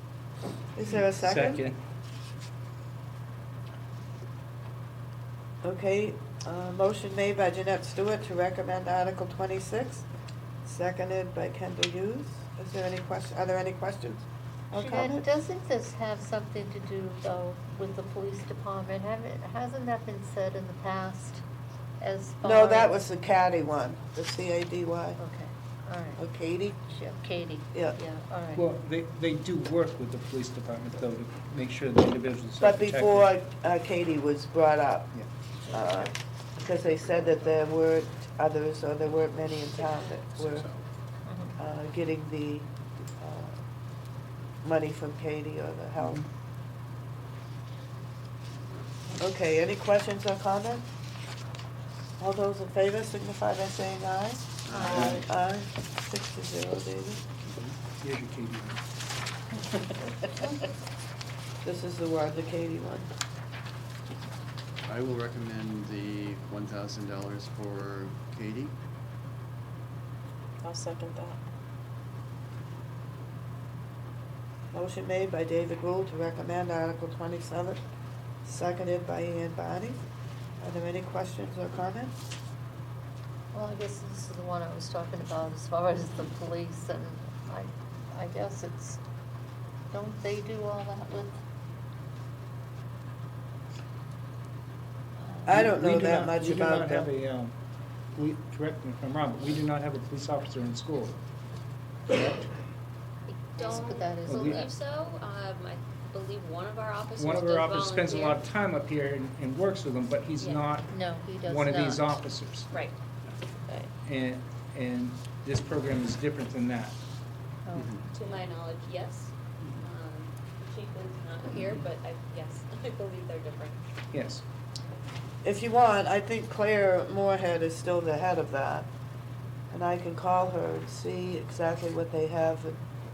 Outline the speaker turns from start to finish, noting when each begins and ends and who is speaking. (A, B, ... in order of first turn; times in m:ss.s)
0:00.8-0:01.6 A
0:01.0-0:01.8 B
0:05.6-0:10.0 A
0:10.6-0:15.3 A
0:14.7-0:21.4 C
0:22.0-0:23.0 C
0:22.4-0:25.2 A
0:25.2-0:26.2 C
0:26.2-0:26.8 A
0:26.9-0:28.7 C
0:28.5-0:33.3 B
0:32.6-0:35.1 A
0:35.7-0:40.7 A
0:41.2-0:41.5 C
0:41.6-0:42.7 A
0:43.2-0:43.6 A
0:44.6-0:46.2 A
0:46.0-0:46.2 B
0:49.2-0:50.8 A
0:52.2-0:57.2 A
0:54.6-0:55.2 D
0:54.7-0:55.2 C
0:54.9-0:55.2 B
0:57.6-0:58.8 B
1:01.6-1:03.1 A
1:04.8-1:08.8 D
1:14.7-1:17.8 A
1:18.4-1:20.0 A
1:20.6-1:22.1 A
1:23.5-1:29.0 C
1:29.9-1:31.4 C
1:35.4-1:37.1 A
1:35.4-1:37.5 B
1:38.1-1:41.2 B
1:42.1-1:42.5 B
1:43.5-1:44.7 C
1:43.6-1:48.4 E
1:44.3-1:44.6 B
1:47.2-1:52.7 B
1:50.4-1:50.7 E
1:50.9-1:52.2 C
1:52.7-1:53.0 E
1:54.0-1:57.0 B
1:57.6-1:58.1 C
1:58.1-2:03.8 E
2:04.1-2:04.4 B
2:05.4-2:08.9 A
2:09.7-2:12.8 A